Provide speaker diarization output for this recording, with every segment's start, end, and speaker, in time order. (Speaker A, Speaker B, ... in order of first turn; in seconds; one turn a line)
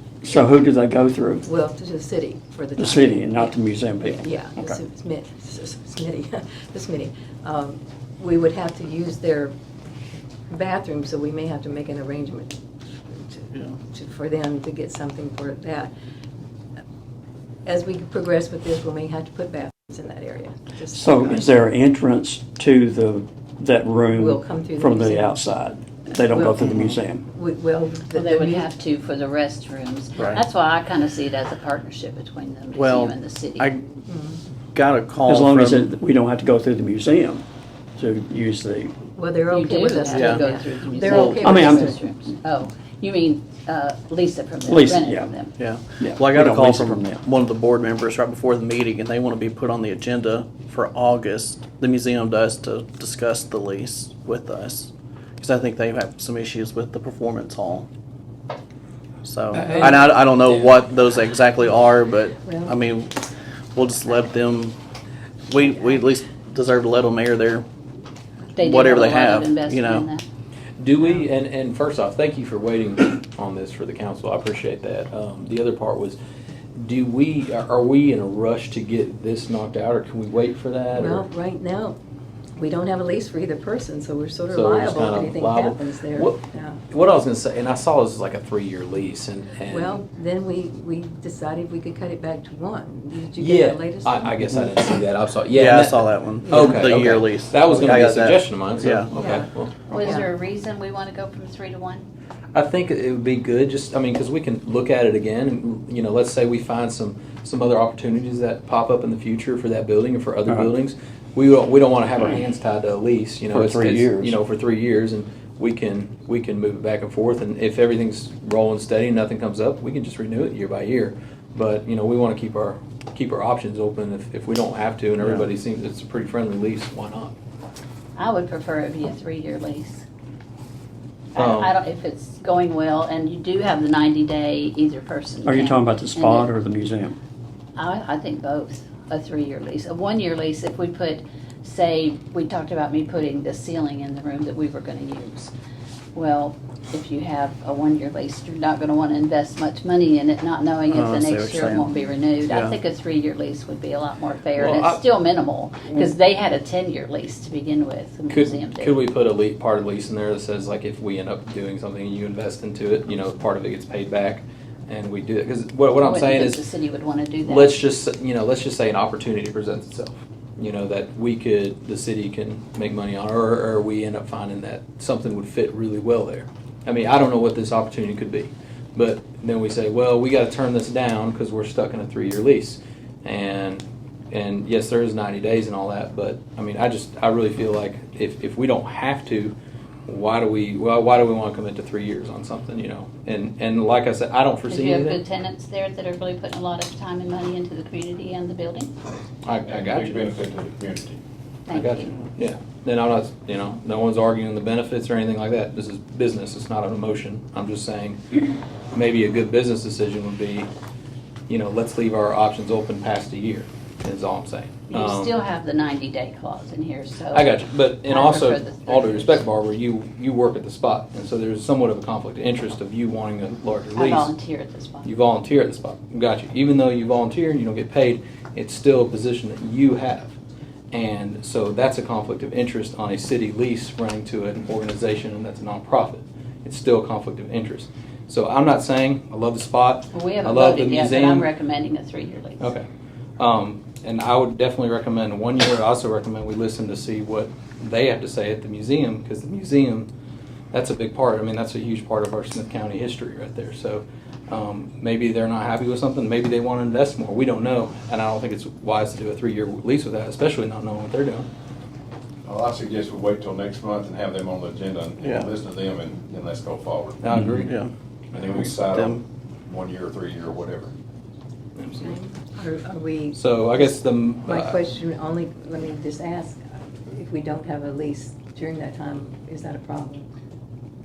Speaker A: 0.2-1.5
Speaker B: 1.4-9.5
Speaker A: 2.8-4.8
Speaker B: 10.5-12.6
Speaker B: 13.1-15.9
Speaker B: 17.6-21.5
Speaker A: 20.9-27.2
Speaker B: 24.1-25.4
Speaker B: 26.3-26.8
Speaker B: 27.3-28.7
Speaker C: 28.1-33.7
Speaker D: 32.7-33.8
Speaker B: 34.1-34.4
Speaker D: 34.7-35.9
Speaker A: 35.3-37.5
Speaker A: 38.0-38.9
Speaker B: 39.2-42.0
Speaker C: 39.5-45.6
Speaker D: 40.1-40.4
Speaker D: 41.1-41.5
Speaker A: 41.4-42.0
Speaker A: 44.7-45.3
Speaker D: 45.6-57.9
Speaker A: 46.0-47.2
Speaker D: 59.2-63.1
Speaker B: 59.5-59.9
Speaker B: 62.4-62.7
Speaker D: 63.7-64.8
Speaker D: 65.5-67.7
Speaker C: 68.5-70.2
Speaker D: 68.6-70.1
Speaker E: 70.8-76.2
Speaker E: 76.8-81.2
Speaker B: 80.9-82.0
Speaker B: 82.6-86.8
Speaker E: 84.5-90.0
Speaker B: 89.7-94.6
Speaker E: 93.4-99.8
Speaker D: 95.5-99.1
Speaker B: 99.1-100.3
Speaker C: 99.9-102.1
Speaker E: 102.5-127.3
Speaker A: 113.5-114.4
Speaker C: 128.2-130.0
Speaker C: 131.3-136.5
Speaker E: 131.3-131.7
Speaker A: 135.4-137.2
Speaker C: 137.8-145.5
Speaker C: 146.1-159.0
Speaker D: 150.9-151.9
Speaker D: 152.4-152.8
Speaker E: 154.6-154.9
Speaker E: 158.3-166.6
Speaker C: 166.0-167.8
Speaker E: 167.4-189.6
Speaker E: 190.1-195.2
Speaker C: 194.7-198.9
Speaker E: 199.4-200.3
Speaker F: 199.6-201.2
Speaker C: 201.7-202.1
Speaker E: 201.7-208.2
Speaker E: 208.9-210.7
Speaker E: 211.5-215.3
Speaker C: 214.9-219.4
Speaker E: 217.3-224.3
Speaker C: 223.9-225.1
Speaker E: 225.0-230.3
Speaker E: 230.9-241.5
Speaker C: 240.1-242.7
Speaker E: 242.6-242.8
Speaker E: 243.4-250.1
Speaker E: 250.7-261.5
Speaker F: 262.4-267.4
Speaker D: 265.2-265.5
Speaker E: 267.2-267.8
Speaker D: 267.6-267.9
Speaker F: 268.3-270.9
Speaker D: 268.6-269.2
Speaker E: 271.8-272.1
Speaker B: 272.0-280.3
Speaker E: 273.4-274.8